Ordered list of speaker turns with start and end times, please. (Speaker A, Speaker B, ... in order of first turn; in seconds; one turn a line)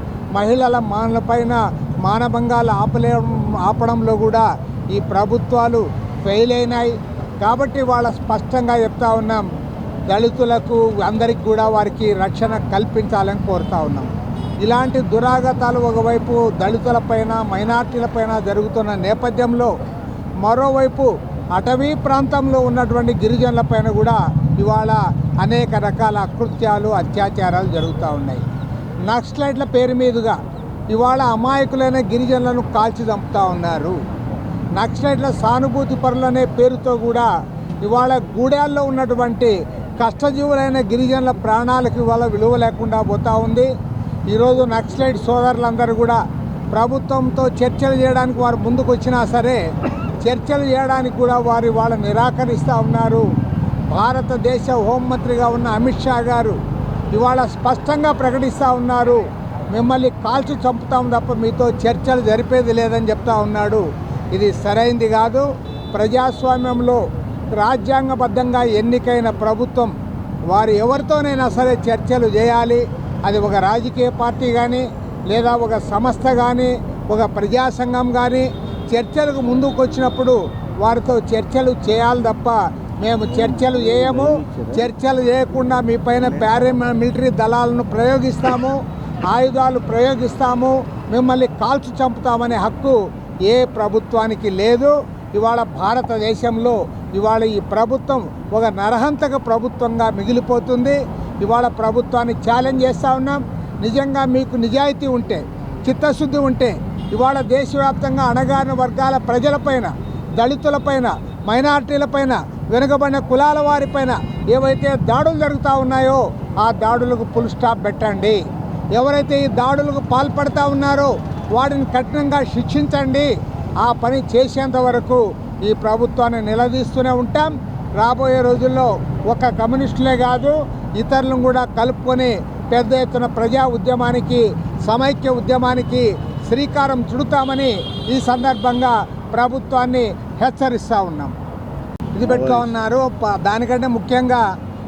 Speaker A: 0.3-9.4
Speaker A: 10.1-14.1
Speaker A: 14.6-19.7
Speaker A: 20.4-28.4
Speaker A: 29.1-30.4
Speaker A: 30.9-34.0
Speaker A: 34.8-37.3
Speaker A: 37.8-43.7
Speaker A: 44.3-46.2
Speaker A: 46.7-49.6
Speaker A: 50.2-53.2
Speaker A: 53.9-56.6
Speaker A: 57.1-59.2
Speaker A: 59.7-67.0
Speaker A: 67.6-69.9
Speaker A: 70.5-88.8
Speaker A: 89.3-93.0
Speaker A: 93.5-118.4
Speaker A: 119.0-123.3
Speaker A: 123.8-141.3
Speaker A: 142.2-144.4